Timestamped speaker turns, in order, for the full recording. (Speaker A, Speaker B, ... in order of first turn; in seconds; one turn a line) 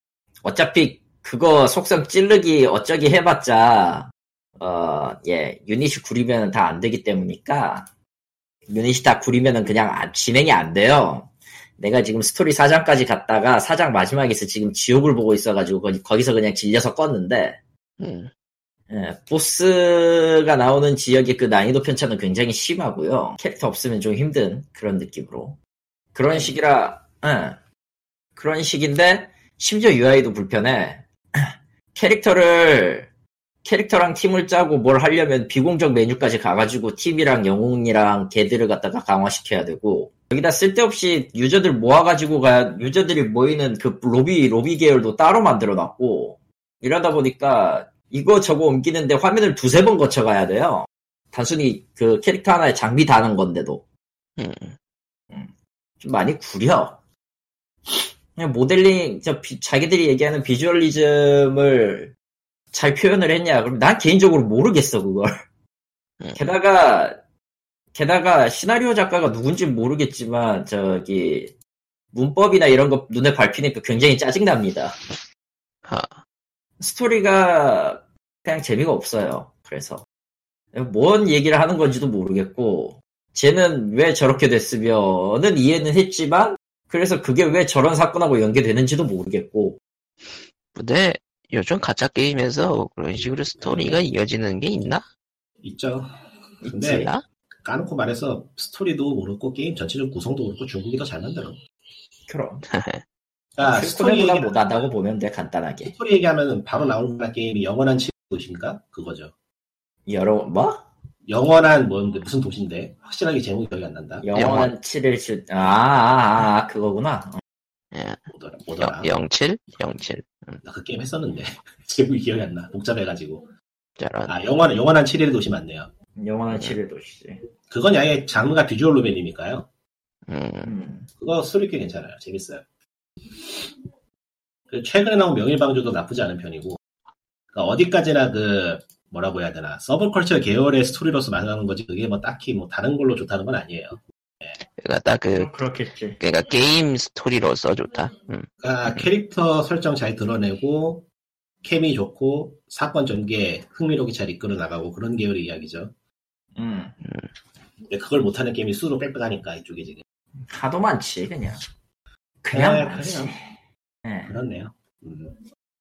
Speaker A: 0.4-7.9
Speaker A: 8.7-17.6
Speaker B: 18.0-18.3
Speaker A: 18.9-25.6
Speaker A: 26.1-27.6
Speaker A: 28.4-33.1
Speaker A: 33.6-53.8
Speaker B: 54.4-54.8
Speaker A: 55.3-57.0
Speaker A: 57.9-62.1
Speaker A: 62.7-65.4
Speaker B: 66.2-66.5
Speaker A: 66.4-67.2
Speaker A: 67.9-71.5
Speaker A: 72.1-75.0
Speaker B: 75.9-76.2
Speaker A: 76.8-80.0
Speaker A: 80.7-89.8
Speaker B: 90.7-95.0
Speaker C: 93.6-94.0
Speaker C: 95.6-97.1
Speaker A: 96.6-97.1
Speaker B: 96.9-97.2
Speaker C: 97.6-101.6
Speaker A: 102.3-102.7
Speaker B: 102.7-103.0
Speaker C: 103.5-104.9
Speaker A: 103.6-105.9
Speaker C: 105.8-109.3
Speaker A: 110.1-110.8
Speaker C: 111.3-114.3
Speaker A: 114.2-117.4
Speaker B: 114.3-114.7
Speaker B: 117.9-118.2
Speaker C: 118.3-119.1
Speaker B: 118.8-120.6
Speaker C: 120.6-123.5
Speaker B: 124.0-124.3
Speaker C: 124.3-125.9
Speaker A: 126.2-127.4
Speaker B: 126.5-126.8
Speaker C: 127.7-129.7
Speaker B: 130.3-130.7
Speaker A: 130.6-131.1
Speaker C: 131.2-132.6
Speaker C: 133.4-133.7
Speaker C: 134.7-136.8
Speaker C: 137.5-144.6
Speaker B: 144.8-145.5
Speaker A: 145.4-146.2
Speaker B: 146.2-149.0
Speaker C: 148.6-151.1
Speaker C: 151.6-155.9
Speaker A: 156.6-157.0
Speaker B: 157.0-157.3
Speaker C: 157.9-160.0
Speaker A: 160.5-161.6
Speaker A: 162.4-163.5
Speaker C: 162.5-163.3
Speaker A: 164.1-164.3
Speaker C: 164.3-165.4